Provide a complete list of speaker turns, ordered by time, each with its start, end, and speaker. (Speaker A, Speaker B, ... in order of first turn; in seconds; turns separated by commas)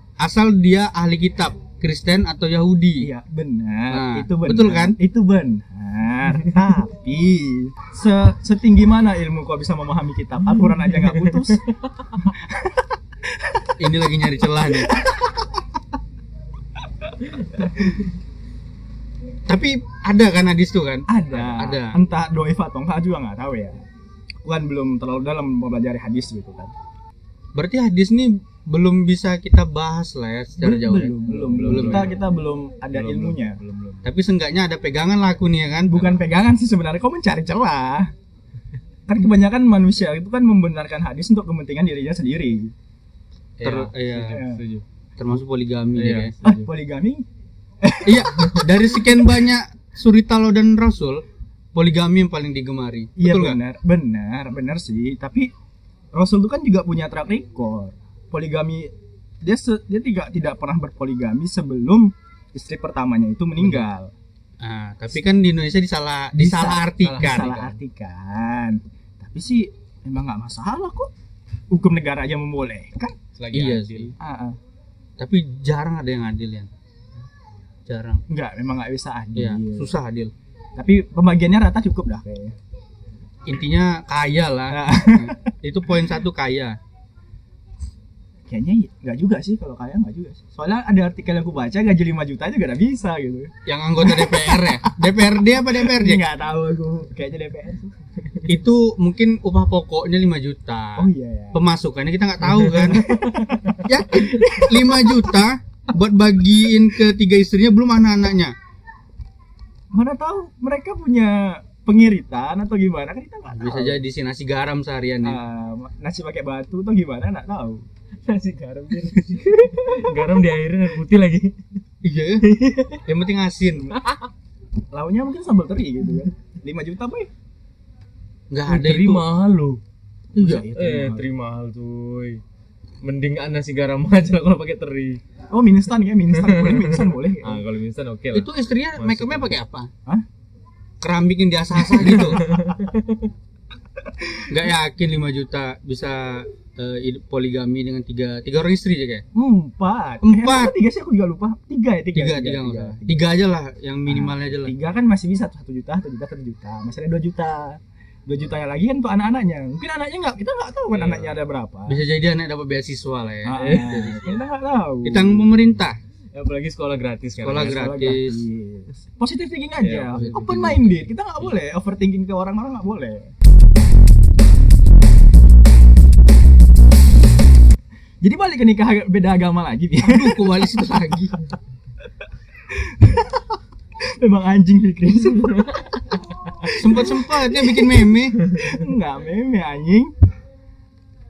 Speaker A: 0.2-3.1, Speaker B: 3.0-12.8, Speaker A: 3.9-5.0, Speaker B: 13.4-13.7, Speaker A: 13.8-14.9, Speaker B: 14.8-15.5, Speaker B: 17.2-18.0, Speaker A: 19.5-21.9, Speaker B: 21.1-23.8, Speaker B: 24.4-26.7, Speaker A: 27.5-32.1, Speaker B: 30.6-33.6, Speaker C: 31.3-32.2, Speaker C: 32.9-34.1, Speaker A: 34.0-36.0, Speaker B: 35.9-38.1, Speaker B: 39.1-42.7, Speaker C: 43.6-44.8, Speaker A: 43.6-44.4, Speaker B: 44.3-44.6, Speaker A: 45.2-46.3, Speaker C: 45.9-46.7, Speaker B: 46.4-47.2, Speaker B: 47.8-49.2, Speaker A: 48.0-53.6, Speaker B: 53.2-55.5, Speaker B: 56.1-58.9, Speaker B: 59.4-64.1, Speaker A: 64.6-67.5, Speaker B: 66.4-71.1, Speaker C: 67.0-67.8, Speaker B: 71.7-73.1, Speaker C: 73.4-74.1, Speaker A: 73.5-74.1, Speaker B: 74.2-74.6, Speaker A: 75.2-76.7, Speaker A: 77.9-78.2, Speaker B: 78.3-80.0, Speaker A: 79.3-80.3, Speaker B: 80.8-82.5, Speaker A: 83.5-86.8, Speaker B: 84.7-85.5, Speaker B: 88.5-95.1, Speaker A: 93.7-96.2, Speaker B: 95.7-97.9, Speaker A: 98.5-103.2, Speaker B: 101.0-101.6, Speaker C: 102.5-103.8, Speaker B: 102.7-105.3, Speaker A: 103.8-108.5, Speaker B: 109.9-114.0, Speaker A: 113.5-115.4, Speaker B: 115.2-117.8, Speaker C: 118.2-121.5, Speaker A: 122.0-122.4, Speaker C: 122.4-123.0, Speaker A: 123.0-123.9, Speaker C: 123.9-124.3, Speaker B: 124.9-127.3, Speaker A: 128.5-129.2, Speaker C: 128.7-129.8, Speaker A: 130.3-130.7, Speaker B: 130.3-131.3, Speaker C: 130.7-132.4, Speaker C: 133.0-135.2, Speaker B: 135.5-137.6, Speaker C: 136.4-139.6, Speaker A: 138.3-139.9, Speaker A: 141.0-142.4, Speaker C: 141.8-143.3, Speaker A: 144.5-149.2, Speaker B: 149.3-153.2, Speaker A: 150.2-150.7, Speaker A: 152.1-154.7, Speaker B: 154.1-162.0, Speaker C: 160.9-161.4, Speaker A: 161.9-164.3, Speaker B: 163.4-165.7, Speaker C: 163.6-164.4, Speaker A: 165.0-166.0, Speaker C: 166.3-168.2, Speaker A: 167.4-168.4, Speaker B: 167.6-173.3, Speaker C: 169.8-170.9, Speaker A: 170.1-170.8, Speaker B: 178.2-180.5, Speaker A: 180.0-181.4, Speaker B: 182.7-183.5, Speaker B: 184.2-187.8, Speaker A: 186.7-188.4, Speaker B: 188.5-190.1